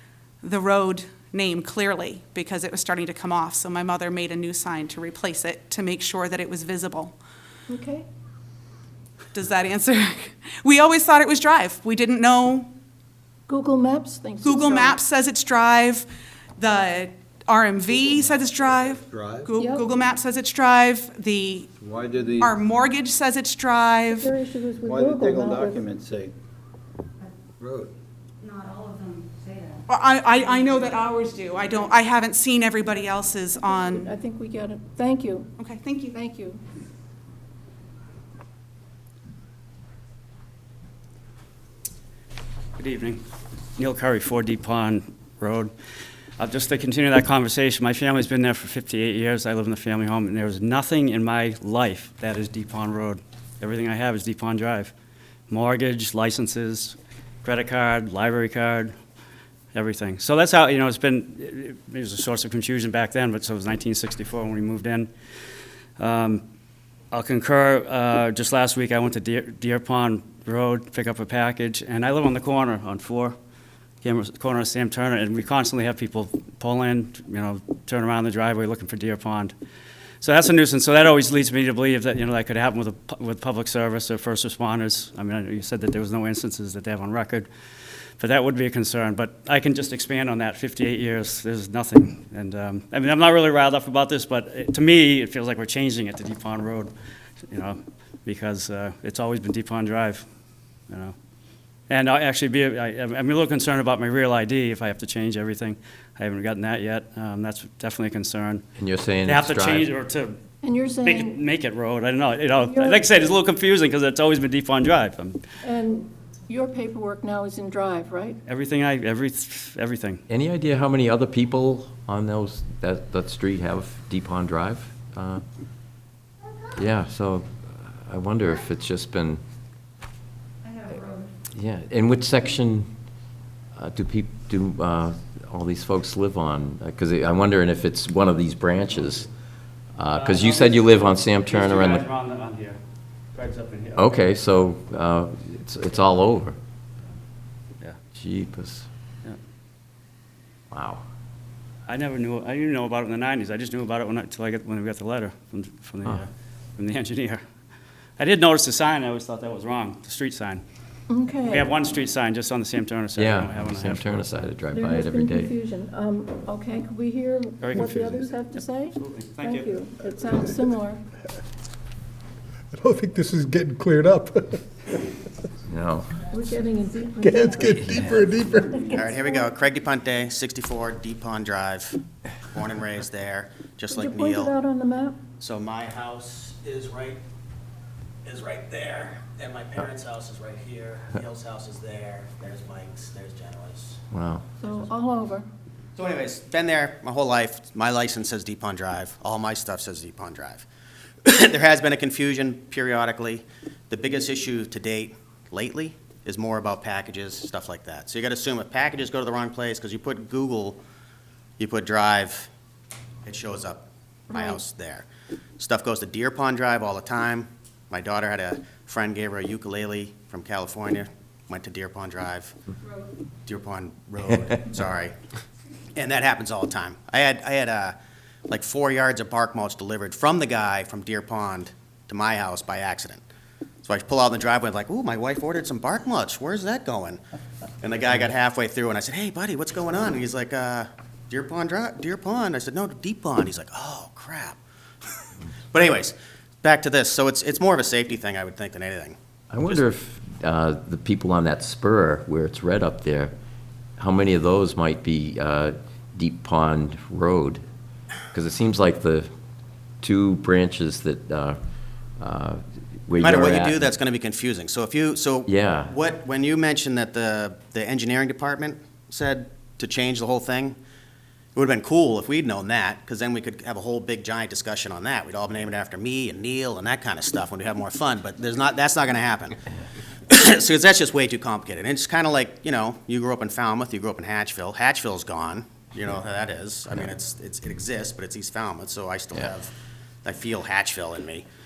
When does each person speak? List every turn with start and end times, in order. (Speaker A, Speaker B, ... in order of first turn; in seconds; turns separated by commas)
Speaker A: 0.4-7.2, Speaker B: 7.7-8.1, Speaker A: 9.3-12.7, Speaker B: 13.5-15.0, Speaker A: 14.4-21.7, Speaker C: 19.0-19.5, Speaker B: 19.6-19.9, Speaker C: 21.8-22.5, Speaker A: 22.4-24.3, Speaker B: 24.1-25.9, Speaker C: 24.9-26.3, Speaker C: 27.6-27.9, Speaker D: 28.4-29.8, Speaker A: 29.9-34.1, Speaker B: 33.6-35.5, Speaker A: 35.6-36.2, Speaker B: 36.1-36.6, Speaker E: 42.8-43.2, Speaker E: 43.8-45.7, Speaker E: 46.4-54.9, Speaker E: 55.5-59.0, Speaker E: 59.7-65.1, Speaker E: 66.0-66.4, Speaker E: 67.1-73.4, Speaker E: 74.0-79.5, Speaker E: 80.2-87.5, Speaker E: 88.2-96.9, Speaker E: 97.5-100.2, Speaker E: 100.9-101.2, Speaker E: 101.9-108.6, Speaker F: 108.8-109.9, Speaker E: 109.2-110.4, Speaker B: 110.6-111.4, Speaker E: 111.0-115.4, Speaker B: 112.6-113.0, Speaker B: 115.6-118.4, Speaker E: 118.5-120.2, Speaker F: 120.3-125.4, Speaker F: 126.8-129.4, Speaker D: 130.7-131.3, Speaker F: 131.5-132.9, Speaker F: 133.8-139.3, Speaker F: 140.0-142.1, Speaker E: 140.1-142.8, Speaker E: 143.3-144.2, Speaker F: 143.9-146.6, Speaker F: 148.1-148.9, Speaker F: 150.7-151.0, Speaker E: 151.9-157.4, Speaker E: 158.2-160.6, Speaker B: 161.1-161.7, Speaker E: 161.4-164.3, Speaker F: 163.2-165.5, Speaker B: 164.7-171.0, Speaker E: 167.6-168.3, Speaker E: 168.9-169.9, Speaker G: 170.4-170.7, Speaker G: 172.7-174.9, Speaker F: 175.7-176.1, Speaker B: 176.3-177.8, Speaker G: 177.2-178.9, Speaker F: 177.7-178.2, Speaker B: 178.7-179.4, Speaker H: 178.9-184.6, Speaker B: 183.9-185.2, Speaker H: 185.4-187.2, Speaker H: 188.2-194.0, Speaker F: 194.1-194.4, Speaker B: 194.6-195.5, Speaker H: 196.0-200.7, Speaker H: 201.2-210.8, Speaker H: 211.6-212.5, Speaker H: 213.2-215.1, Speaker B: 214.3-214.6, Speaker H: 215.6-222.6, Speaker H: 223.5-225.2, Speaker H: 225.9-227.9, Speaker H: 228.5-233.2, Speaker H: 233.8-237.2, Speaker H: 237.8-244.6, Speaker H: 245.7-249.8, Speaker F: 249.5-253.3, Speaker F: 254.0-257.6, Speaker F: 258.3-259.3, Speaker F: 260.0-261.6, Speaker F: 262.2-263.9, Speaker H: 263.2-270.8, Speaker F: 265.5-265.9, Speaker H: 271.6-279.6, Speaker H: 280.3-289.7, Speaker H: 290.2-291.4